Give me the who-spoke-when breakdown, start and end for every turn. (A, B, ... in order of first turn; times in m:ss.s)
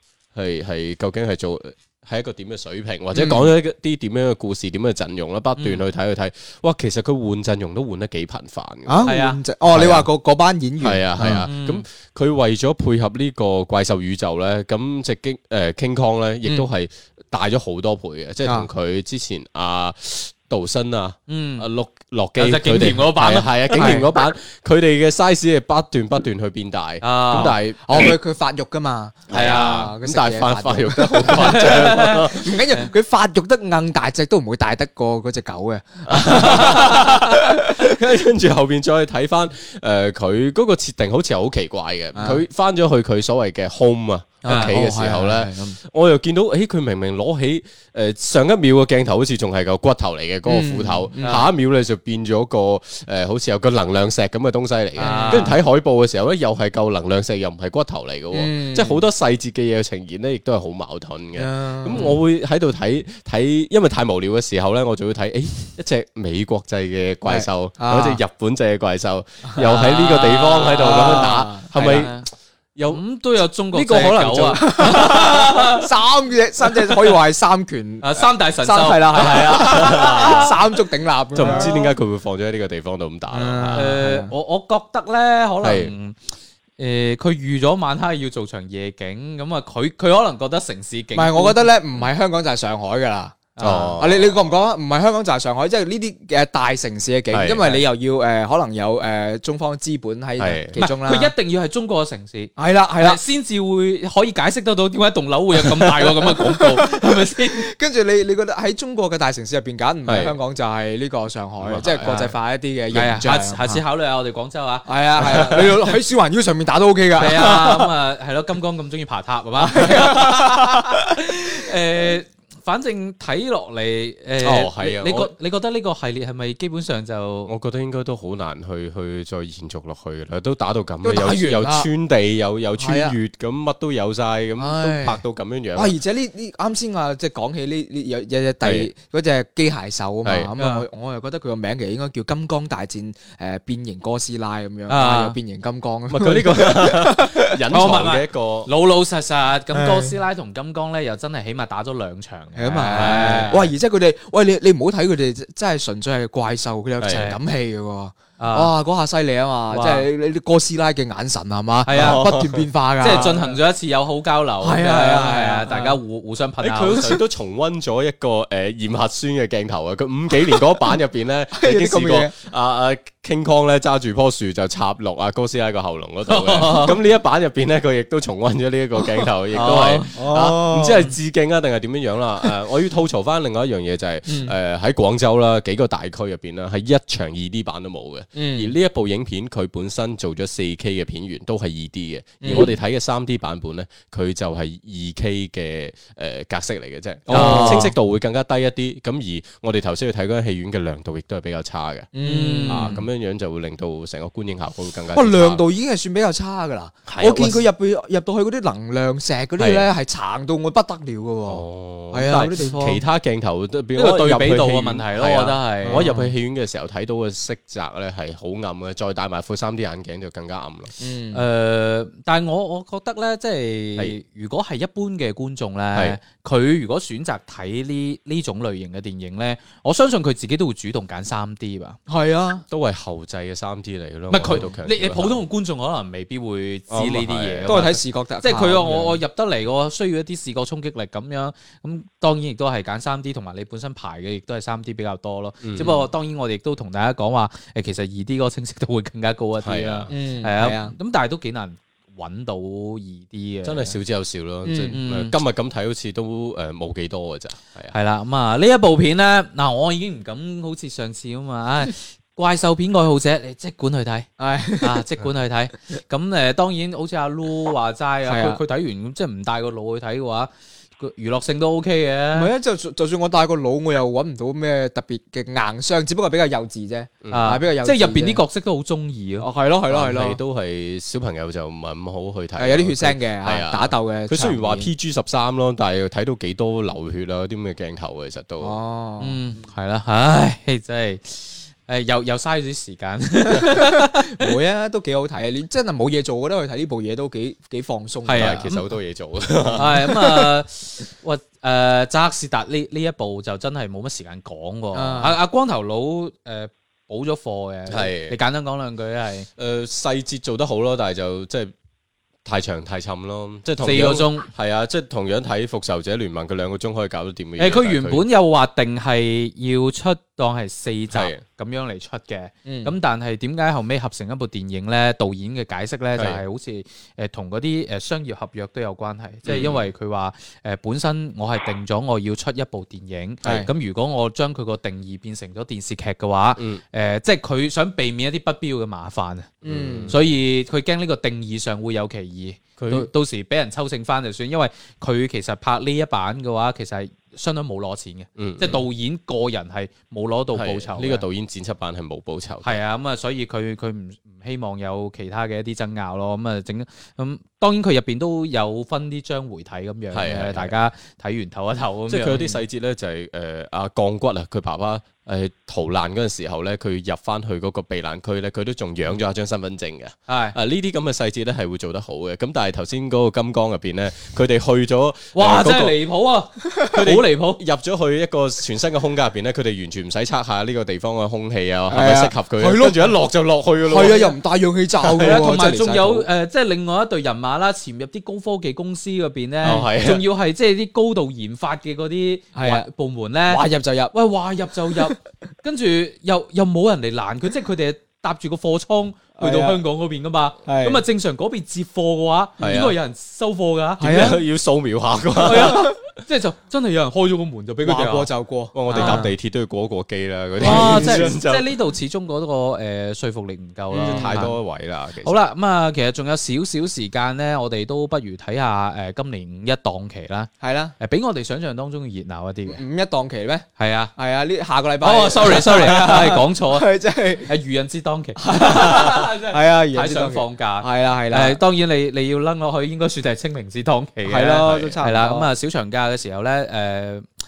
0:00.4-0:09.1 A
0:03.1-0:03.5 B
0:05.6-0:05.8 C
0:08.9-0:11.5 B
0:09.0-0:09.4 C
0:09.7-0:10.1 A
0:10.8-0:28.2 A
0:11.4-0:11.8 C
0:18.4-0:18.7 B
0:21.3-0:21.7 C
0:22.4-0:24.1 C
0:23.7-0:24.1 B
0:27.0-0:27.6 C
0:27.3-0:38.0 B
0:29.3-0:32.5 A
0:29.3-0:29.9 C
0:31.3-0:32.9 C
0:36.1-1:13.0 A
0:36.4-0:36.8 C
0:42.2-0:42.4 B
0:44.4-0:45.8 B
0:44.4-0:44.8 C
0:50.4-0:51.5 B
0:51.2-0:51.5 C
0:55.0-0:55.6 B
0:55.0-0:55.6 C
0:58.3-0:59.0 B
1:01.3-1:02.2 B
1:07.3-1:08.2 B
1:09.5-1:10.0 B
1:09.8-1:12.3 C
1:10.8-1:12.1 B
1:12.9-1:15.9 C
1:13.7-1:14.6 A
1:13.8-1:21.9 B
1:16.7-1:17.2 C
1:18.0-1:20.6 C
1:19.2-1:20.6 A
1:21.4-1:23.9 A
1:21.4-1:21.8 C
1:23.3-1:24.3 B
1:23.7-1:26.2 C
1:25.6-1:25.9 A
1:26.8-1:31.7 C
1:31.1-1:41.3 B
1:33.6-1:34.0 C
1:33.6-1:34.4 A
1:37.3-1:37.7 A
1:40.4-1:40.8 A
1:40.8-1:47.7 C
1:42.6-1:43.2 B
1:45.6-1:53.8 B
1:50.1-1:50.3 A
1:51.6-1:52.1 A
1:52.0-1:52.3 C
1:52.9-1:55.8 C
1:54.9-1:57.9 B
1:55.2-1:55.6 A
1:57.2-2:07.5 C
1:59.6-2:01.0 B
2:04.4-2:05.3 A
2:07.5-2:15.9 A
2:11.0-2:11.9 B
2:12.8-2:13.2 B
2:14.6-2:15.2 B
2:15.7-2:27.5 B
2:18.6-2:18.9 A
2:20.2-2:20.5 A
2:20.6-2:20.8 C
2:24.9-2:25.4 C
2:26.1-2:28.7 A
2:27.7-2:33.7 C
2:29.7-2:30.1 B
2:32.6-2:43.6 B
2:33.0-2:33.5 A
2:37.0-2:37.3 A
2:37.1-2:37.4 C
2:38.4-2:38.7 C
2:39.7-2:40.1 C
2:41.8-2:42.3 C
2:41.9-2:43.3 A
2:43.0-2:47.2 C
2:44.6-2:46.0 B
2:46.6-3:22.1 A
2:51.5-2:52.3 B
2:56.3-2:57.0 C
2:59.5-3:00.1 C
3:00.1-3:01.2 B
3:04.3-3:04.5 B
3:08.4-3:08.8 B
3:12.4-3:12.7 B
3:17.3-3:17.9 B
3:17.3-3:17.9 C
3:22.1-3:23.0 B
3:22.2-3:23.0 C
3:22.7-3:25.6 A
3:25.1-3:33.0 B
3:27.1-3:27.6 A
3:29.6-3:29.9 A
3:31.5-3:40.9 A
3:34.0-3:36.1 C
3:35.9-3:36.4 B
3:41.0-3:41.4 B
3:41.3-3:52.0 C
3:45.9-3:46.2 A
3:52.1-3:52.6 B
3:52.7-3:55.4 A
3:54.3-4:14.0 C
3:56.9-3:57.8 A
3:57.7-3:59.2 B
4:05.6-4:06.0 A
4:09.6-4:10.1 A
4:10.1-4:10.9 B
4:13.6-4:17.9 A
4:14.6-4:15.0 B
4:14.9-4:15.4 C
4:17.9-4:24.3 C
4:24.4-4:25.0 B
4:24.8-4:32.5 C
4:28.2-4:28.6 B
4:32.3-4:38.4 B
4:37.2-4:37.5 A
4:37.3-4:39.5 C
4:39.4-4:40.4 B
4:39.9-4:48.8 A
4:42.6-4:44.9 B
4:48.6-4:49.4 B
4:49.2-4:54.3 C
4:53.5-4:58.6 B
4:58.3-4:58.8 C
4:58.4-5:00.1 A
4:59.6-5:00.5 B
4:59.7-5:09.5 C
5:04.9-5:05.4 B
5:07.9-5:08.4 A
5:09.6-5:11.7 A
5:12.4-5:18.2 A
5:13.8-5:14.5 C
5:17.6-5:39.5 C
5:21.1-5:21.4 A
5:22.7-5:22.9 B
5:26.2-5:26.4 A
5:29.4-5:29.8 A
5:33.4-5:33.7 B
5:36.6-5:36.8 A
5:39.6-5:40.2 A
5:39.6-5:40.2 B
5:40.1-5:51.2 C
5:42.8-5:43.1 A
5:48.4-5:48.9 A
5:50.5-5:52.8 A
5:52.6-6:02.6 C
6:00.1-6:00.7 A
6:02.1-6:16.0 A
6:10.3-6:10.6 C
6:15.4-6:17.6 C
6:16.8-6:24.3 A
6:21.9-6:23.2 B
6:23.8-6:26.3 B
6:25.1-6:25.4 A
6:25.2-6:44.3 C
6:29.6-6:30.2 A
6:32.6-6:32.9 B
6:33.5-6:34.1 B
6:34.9-6:35.2 B
6:39.4-6:39.8 B
6:40.6-6:41.0 B
6:42.6-6:42.9 B
6:42.6-6:43.0 A
6:44.0-6:44.4 B
6:44.0-6:46.0 A
6:45.4-6:45.9 B
6:45.4-6:48.3 C
6:47.8-6:49.4 B
6:48.7-6:51.7 A
6:48.9-6:49.3 C
6:50.6-6:51.4 B
6:50.6-6:54.6 C
6:53.9-6:54.5 B
6:54.0-6:55.4 A
6:55.2-7:02.8 C
7:00.6-7:01.0 B
7:02.7-7:07.6 B
7:03.8-7:04.1 C
7:05.0-7:17.2 C
7:08.4-7:11.6 B
7:14.2-7:15.5 B